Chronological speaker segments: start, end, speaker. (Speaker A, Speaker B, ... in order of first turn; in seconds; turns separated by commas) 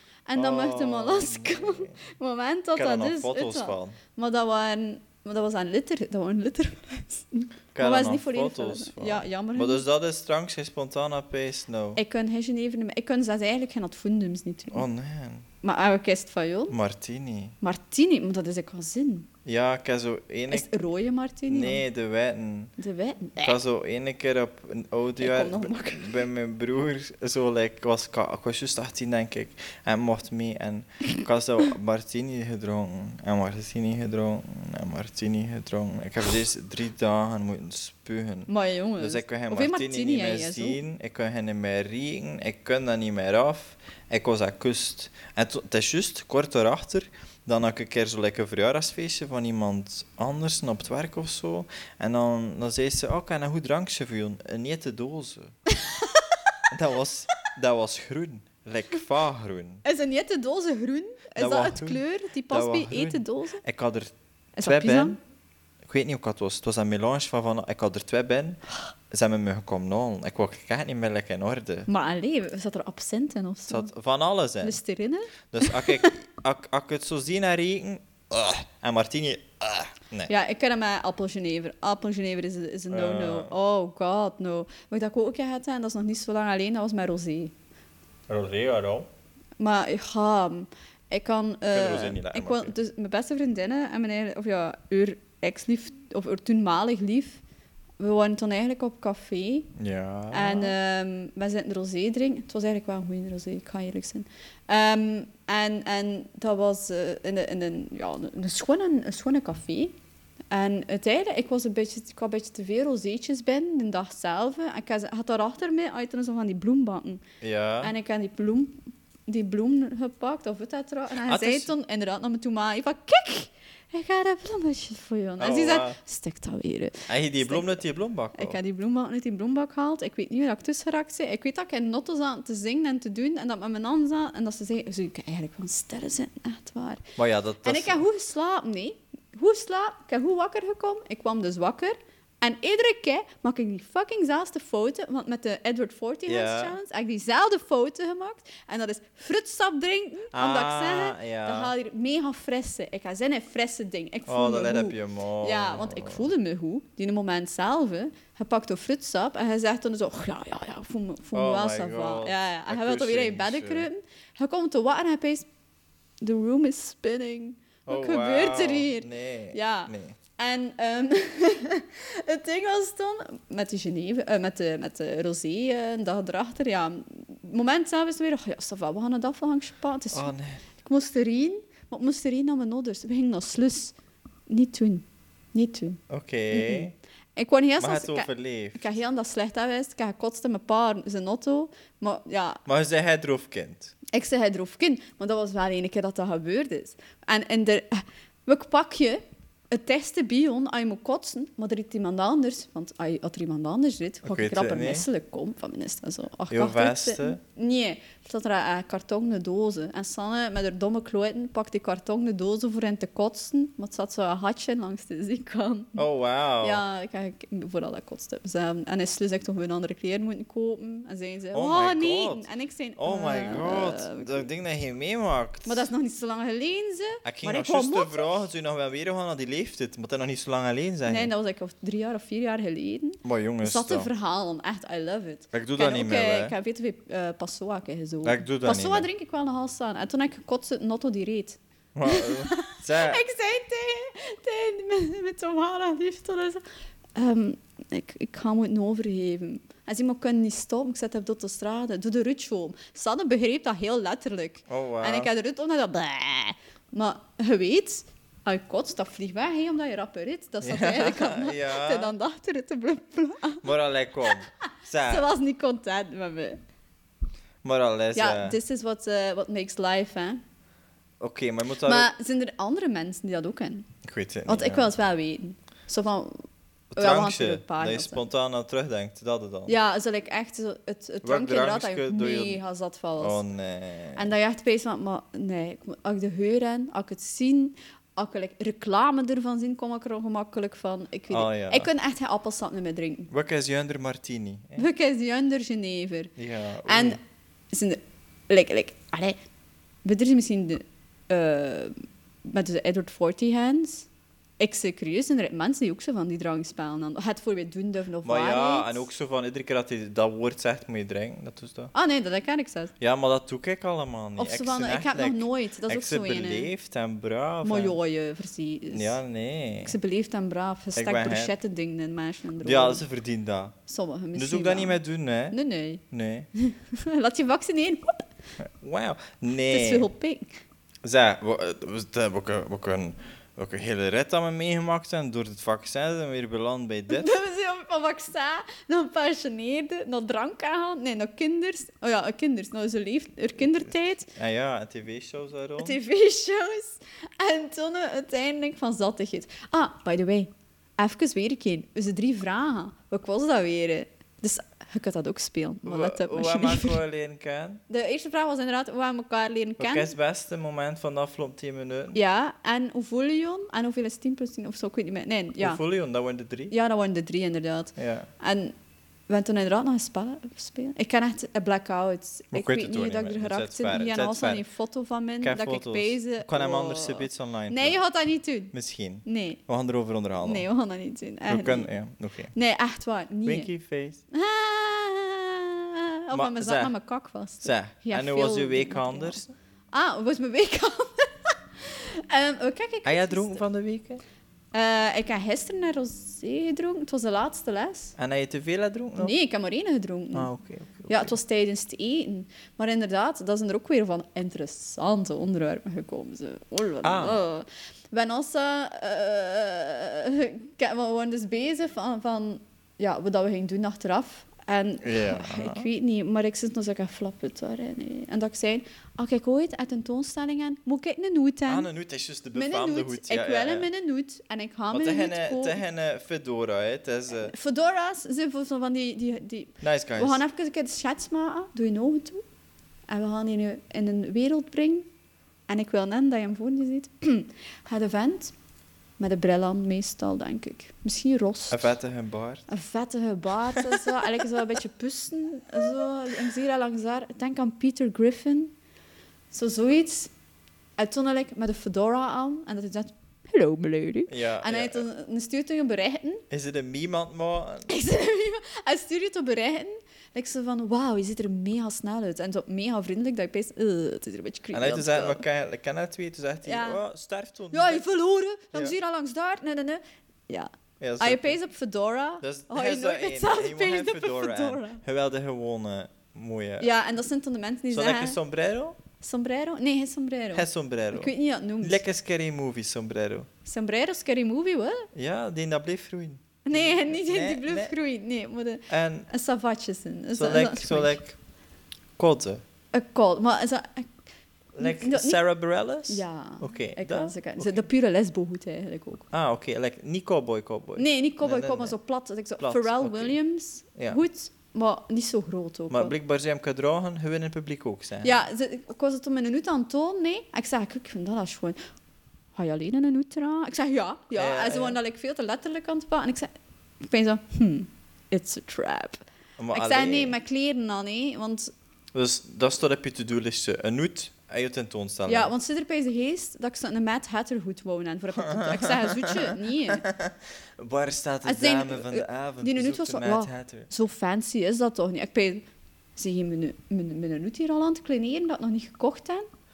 Speaker A: 0.3-9.8, Speaker B: 0.3-1.9, Speaker B: 2.8-4.0, Speaker B: 7.7-12.0, Speaker A: 11.9-14.8, Speaker B: 14.7-15.4, Speaker A: 15.6-16.8, Speaker B: 16.7-17.6, Speaker A: 17.6-19.3, Speaker B: 19.4-20.7, Speaker A: 20.5-21.8, Speaker B: 21.5-22.7, Speaker A: 22.8-23.6, Speaker B: 23.4-55.5, Speaker A: 25.2-26.2, Speaker A: 38.5-40.8, Speaker A: 55.7-56.2, Speaker B: 56.7-59.8, Speaker A: 59.8-63.6, Speaker B: 61.4-64.1, Speaker A: 64.5-65.2, Speaker B: 64.6-65.2, Speaker B: 65.8-68.6, Speaker B: 69.1-71.9, Speaker A: 71.9-73.9, Speaker B: 73.7-74.8, Speaker A: 74.6-76.2, Speaker B: 75.5-80.3, Speaker A: 80.3-87.5, Speaker B: 82.9-83.5, Speaker B: 88.3-89.1, Speaker A: 89.6-97.4, Speaker B: 91.7-92.7, Speaker A: 98.0-99.7, Speaker B: 99.8-100.8, Speaker A: 100.3-109.9, Speaker A: 110.5-117.2, Speaker B: 117.4-117.9, Speaker A: 117.8-127.8, Speaker B: 121.1-121.7, Speaker B: 125.4-126.0, Speaker B: 127.1-128.6, Speaker A: 128.3-137.0, Speaker B: 137.2-138.0, Speaker A: 137.6-165.4, Speaker B: 146.3-146.8, Speaker B: 150.3-151.7, Speaker B: 154.3-156.3, Speaker B: 161.3-163.9, Speaker A: 166.2-183.9, Speaker B: 167.9-170.2, Speaker B: 180.1-180.6, Speaker A: 184.5-186.0, Speaker B: 186.1-186.9, Speaker A: 186.5-192.6, Speaker B: 187.8-188.9, Speaker B: 192.7-193.9, Speaker A: 194.1-216.0, Speaker B: 204.2-205.1, Speaker B: 206.5-207.4, Speaker B: 216.0-216.8, Speaker A: 216.6-224.5, Speaker B: 221.5-225.8, Speaker A: 225.6-228.4, Speaker B: 227.2-231.3, Speaker A: 231.1-246.6, Speaker B: 233.2-234.1, Speaker B: 235.5-236.5, Speaker B: 238.2-239.1, Speaker B: 241.9-243.2, Speaker A: 247.1-263.7, Speaker B: 254.7-255.3, Speaker B: 260.6-262.1, Speaker B: 263.6-265.3, Speaker A: 265.1-266.6, Speaker B: 267.6-268.6, Speaker A: 268.1-270.4, Speaker B: 271.2-272.1, Speaker A: 271.8-273.9, Speaker B: 274.0-274.9, Speaker A: 274.4-276.4, Speaker B: 276.9-279.7, Speaker A: 277.0-278.2, Speaker A: 279.6-283.4, Speaker B: 281.2-282.6, Speaker B: 283.2-284.3, Speaker A: 284.1-293.3, Speaker B: 291.3-291.9, Speaker B: 293.3-294.9, Speaker A: 294.8-296.3, Speaker B: 296.4-297.2, Speaker A: 296.8-297.2, Speaker A: 297.7-299.4, Speaker A: 300.0-304.1, Speaker A: 304.6-309.0, Speaker B: 308.2-311.9, Speaker A: 311.9-312.9, Speaker B: 313.0-318.0, Speaker A: 314.4-316.7, Speaker A: 317.6-319.2, Speaker B: 318.9-319.9, Speaker A: 319.8-323.0, Speaker B: 320.9-321.5, Speaker B: 322.6-323.8, Speaker A: 323.9-325.0, Speaker B: 324.4-325.6, Speaker A: 325.5-326.0, Speaker B: 326.1-326.5, Speaker A: 326.6-328.2, Speaker B: 328.6-330.1, Speaker A: 329.7-330.5, Speaker B: 331.0-337.3, Speaker A: 337.1-344.3, Speaker B: 343.7-346.0, Speaker A: 345.8-357.0, Speaker B: 355.8-357.8, Speaker A: 357.9-360.1, Speaker B: 359.8-362.2, Speaker A: 362.1-365.8, Speaker B: 365.6-366.7, Speaker A: 366.7-368.7, Speaker B: 367.9-368.3, Speaker A: 369.3-378.7, Speaker B: 372.5-374.6, Speaker B: 375.4-378.0, Speaker B: 378.7-380.6, Speaker A: 379.2-379.6, Speaker A: 380.4-381.9, Speaker B: 381.5-382.5, Speaker A: 382.5-383.7, Speaker B: 383.4-384.2, Speaker A: 384.3-389.4, Speaker B: 386.3-386.9, Speaker B: 387.6-389.5, Speaker A: 389.9-393.6, Speaker B: 393.0-394.2, Speaker A: 394.7-398.1, Speaker B: 398.2-399.3, Speaker A: 399.2-400.5, Speaker B: 400.3-401.4, Speaker A: 401.1-421.9, Speaker B: 407.0-407.4, Speaker B: 415.0-415.9, Speaker B: 421.7-423.9, Speaker A: 422.5-425.8, Speaker B: 424.9-427.5, Speaker A: 427.4-432.4, Speaker B: 429.8-430.4, Speaker A: 433.1-435.1, Speaker A: 435.7-438.5, Speaker A: 439.2-441.9, Speaker B: 441.7-442.7, Speaker A: 442.7-448.7, Speaker B: 443.8-444.4, Speaker A: 449.5-450.3, Speaker A: 451.0-456.4, Speaker B: 454.3-455.0, Speaker B: 456.5-457.9, Speaker A: 457.9-465.4, Speaker B: 464.7-468.0, Speaker A: 466.6-467.0, Speaker A: 467.7-475.0, Speaker B: 471.0-471.5, Speaker B: 472.4-476.9, Speaker A: 476.8-478.4, Speaker B: 477.9-479.0, Speaker A: 479.2-482.0, Speaker B: 480.5-483.5, Speaker A: 483.6-485.1, Speaker B: 485.1-487.9, Speaker A: 486.6-491.2, Speaker B: 488.9-489.3, Speaker B: 490.3-491.4, Speaker B: 492.2-492.6, Speaker A: 492.9-494.1, Speaker B: 494.8-497.8, Speaker A: 494.8-495.4, Speaker A: 496.1-499.3, Speaker B: 499.3-501.9, Speaker A: 501.0-506.1, Speaker B: 502.6-503.4, Speaker B: 503.9-504.2, Speaker B: 505.9-508.4, Speaker A: 508.2-511.8, Speaker A: 512.5-516.5, Speaker B: 514.3-515.0, Speaker A: 517.0-519.2, Speaker B: 519.6-520.4, Speaker A: 519.7-521.7, Speaker B: 522.1-525.5, Speaker A: 525.2-530.0, Speaker B: 528.4-533.9, Speaker A: 531.4-535.6, Speaker A: 536.2-539.4